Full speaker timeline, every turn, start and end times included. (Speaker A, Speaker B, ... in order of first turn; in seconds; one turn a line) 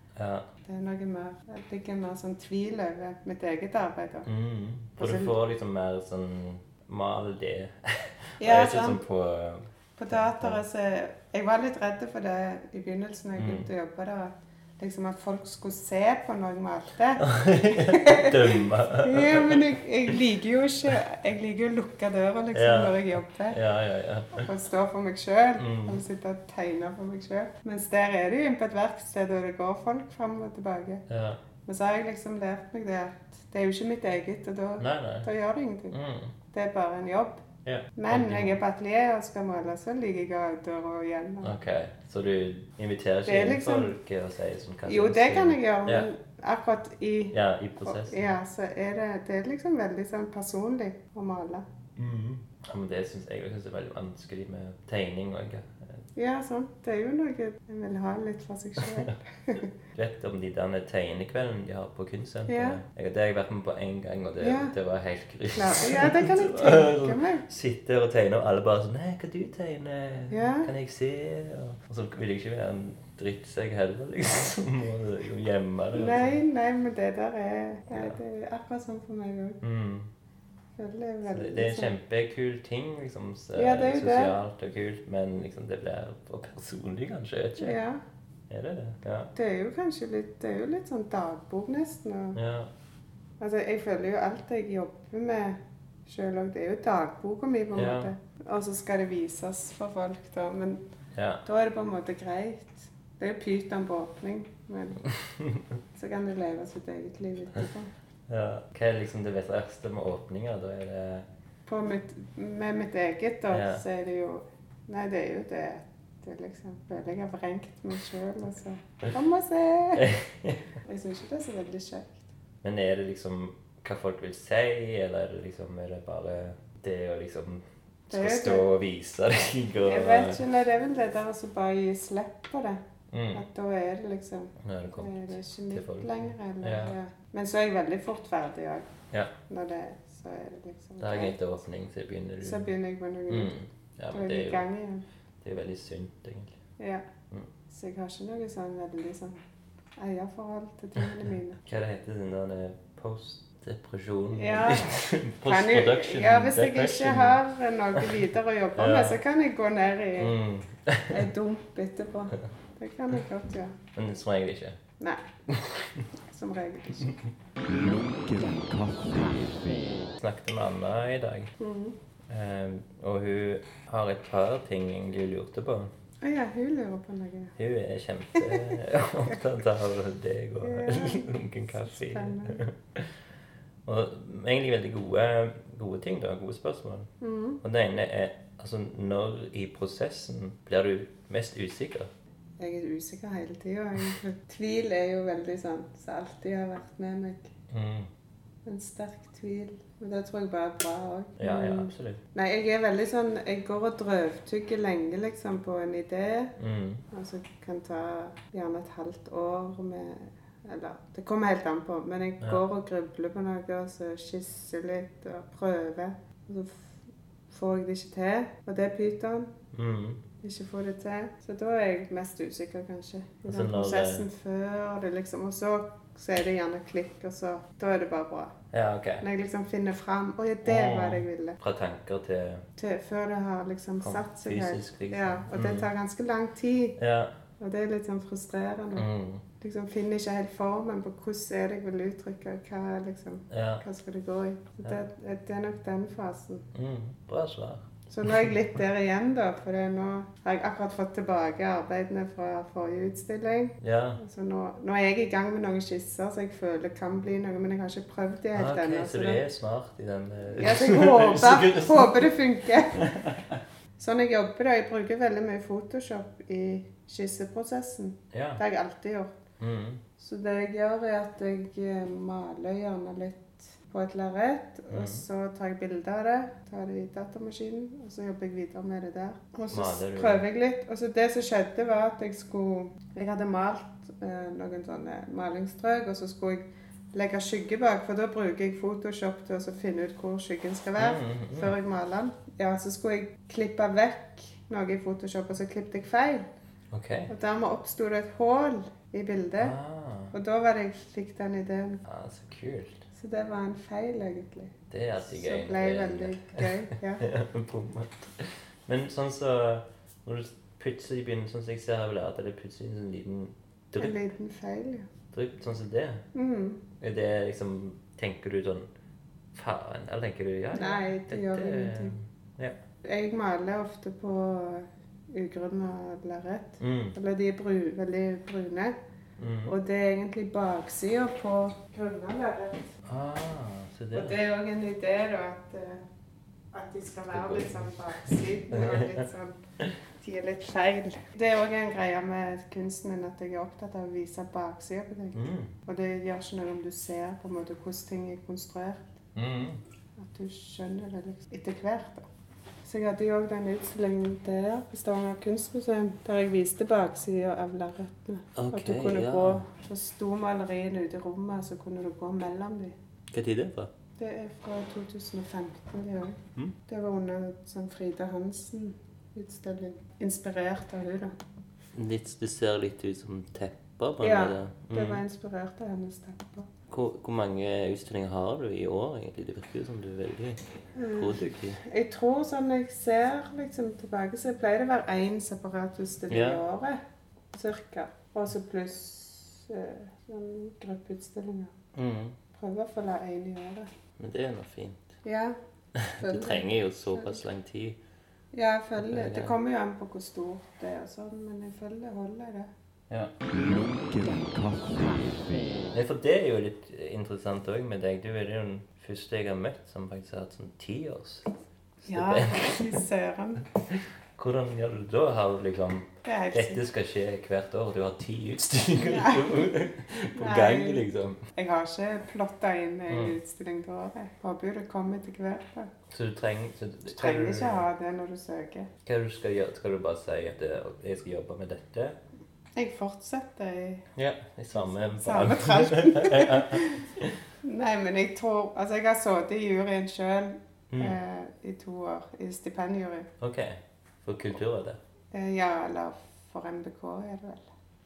Speaker A: 0.1-0.5
Speaker B: 0.6-4.3
Speaker A: 4.2-10.6
Speaker B: 5.0-5.3
Speaker B: 8.4-9.0
Speaker B: 10.0-23.6
Speaker A: 13.4-13.7
Speaker A: 17.2-19.7
Speaker A: 22.5-24.5
Speaker B: 24.3-31.0
Speaker A: 25.6-26.0
Speaker A: 31.1-31.4
Speaker B: 31.6-36.0
Speaker A: 34.8-35.3
Speaker A: 35.9-36.3
Speaker B: 36.5-37.4
Speaker A: 37.6-38.6
Speaker B: 38.0-41.5
Speaker A: 41.4-46.1
Speaker B: 43.2-44.0
Speaker B: 44.9-51.6
Speaker A: 47.3-48.3
Speaker A: 52.0-56.0
Speaker B: 56.1-59.7
Speaker A: 58.8-59.1
Speaker A: 59.9-76.4
Speaker B: 62.5-62.8
Speaker B: 64.4-64.7
Speaker B: 65.5-67.4
Speaker B: 70.3-70.7
Speaker B: 75.9-79.6
Speaker A: 77.9-78.2
Speaker A: 79.6-80.1
Speaker B: 80.8-81.9
Speaker A: 81.2-87.8
Speaker B: 83.5-84.3
Speaker B: 87.6-88.0
Speaker A: 88.5-89.3
Speaker B: 89.3-92.4
Speaker A: 92.3-92.7
Speaker B: 93.4-100.8
Speaker A: 97.7-98.1
Speaker A: 101.1-101.4
Speaker B: 101.4-105.0
Speaker A: 105.3-105.6
Speaker B: 105.9-107.9
Speaker A: 108.3-111.2
Speaker B: 111.7-120.1
Speaker A: 113.5-113.8
Speaker A: 120.0-120.6
Speaker B: 120.8-122.2
Speaker A: 122.6-130.4
Speaker B: 128.1-128.7
Speaker B: 129.8-132.8
Speaker A: 133.1-133.4
Speaker B: 133.3-138.9
Speaker A: 134.6-136.9
Speaker B: 139.5-141.4
Speaker A: 141.0-142.7
Speaker B: 142.4-143.5
Speaker A: 143.3-144.7
Speaker B: 144.1-145.0
Speaker A: 145.4-146.5
Speaker B: 146.8-147.0
Speaker B: 147.7-149.4
Speaker B: 150.0-151.6
Speaker A: 151.6-157.4
Speaker B: 154.3-160.4
Speaker A: 158.8-159.2
Speaker A: 160.2-161.2
Speaker B: 161.1-163.8
Speaker A: 163.9-164.8
Speaker B: 165.0-165.2
Speaker A: 165.5-166.1
Speaker B: 166.3-167.2
Speaker C: 167.6-170.1
Speaker A: 170.2-171.5
Speaker B: 171.6-172.0
Speaker A: 172.3-175.9
Speaker B: 176.2-177.5
Speaker A: 177.6-183.1
Speaker B: 178.3-178.7
Speaker B: 180.6-182.6
Speaker A: 183.8-187.1
Speaker B: 187.2-187.6
Speaker A: 187.6-192.1
Speaker B: 192.6-197.5
Speaker A: 197.7-198.1
Speaker B: 198.6-206.5
Speaker A: 201.4-202.2
Speaker A: 206.6-207.0
Speaker B: 207.1-217.0
Speaker B: 217.5-219.5
Speaker A: 219.7-220.2
Speaker B: 220.4-228.5
Speaker A: 223.4-224.3
Speaker A: 228.7-229.2
Speaker B: 229.2-231.6
Speaker A: 230.6-232.6
Speaker B: 232.8-237.0
Speaker A: 234.0-235.9
Speaker A: 237.0-237.3
Speaker B: 237.6-239.1
Speaker A: 238.9-239.4
Speaker B: 239.6-246.6
Speaker A: 243.5-243.8
Speaker A: 246.7-248.4
Speaker B: 248.1-259.4
Speaker A: 253.8-254.2
Speaker A: 258.5-262.3
Speaker B: 260.5-263.1
Speaker A: 262.9-263.6
Speaker B: 264.0-269.3
Speaker A: 268.3-268.6
Speaker A: 269.6-270.0
Speaker B: 270.2-296.5
Speaker A: 274.9-275.2
Speaker A: 279.7-280.4
Speaker A: 291.0-291.7
Speaker A: 296.9-297.3
Speaker B: 297.3-299.8
Speaker A: 299.6-300.3
Speaker B: 300.3-302.0
Speaker A: 302.1-303.1
Speaker B: 303.1-307.2
Speaker A: 304.9-314.2
Speaker B: 314.0-315.1
Speaker A: 315.3-316.2
Speaker B: 316.3-316.8
Speaker A: 317.0-318.9
Speaker A: 319.5-322.8
Speaker B: 320.7-322.1
Speaker B: 323.0-328.9
Speaker A: 326.8-327.1
Speaker A: 329.4-329.7
Speaker B: 329.6-332.9
Speaker A: 333.1-334.4
Speaker B: 334.1-336.0
Speaker B: 336.7-339.6
Speaker A: 337.3-339.2
Speaker B: 340.2-349.1
Speaker A: 345.3-345.7
Speaker A: 349.3-349.8
Speaker B: 350.2-352.2
Speaker B: 352.8-362.9
Speaker A: 358.5-359.6
Speaker A: 363.3-363.9
Speaker B: 364.2-371.4
Speaker A: 371.9-375.2
Speaker B: 374.2-376.7
Speaker A: 376.9-381.8
Speaker B: 380.9-387.0
Speaker A: 386.3-386.6
Speaker B: 387.5-391.7
Speaker A: 391.9-392.4
Speaker B: 392.5-393.9
Speaker A: 394.2-395.1
Speaker B: 395.2-395.6
Speaker A: 396.0-398.0
Speaker B: 396.2-397.4
Speaker B: 398.5-402.7
Speaker A: 399.0-399.5
Speaker C: 403.4-405.9
Speaker A: 405.9-411.5
Speaker A: 412.0-412.9
Speaker B: 412.0-413.6
Speaker A: 414.4-421.4
Speaker B: 416.2-416.8
Speaker B: 419.0-419.7
Speaker B: 420.3-425.9
Speaker A: 423.1-423.4
Speaker A: 426.1-427.9
Speaker B: 427.1-428.9
Speaker A: 429.0-432.2
Speaker B: 432.7-434.1
Speaker A: 434.1-437.3
Speaker B: 434.7-437.0
Speaker B: 437.6-443.3
Speaker A: 440.9-441.2
Speaker A: 443.4-445.0
Speaker B: 445.3-447.7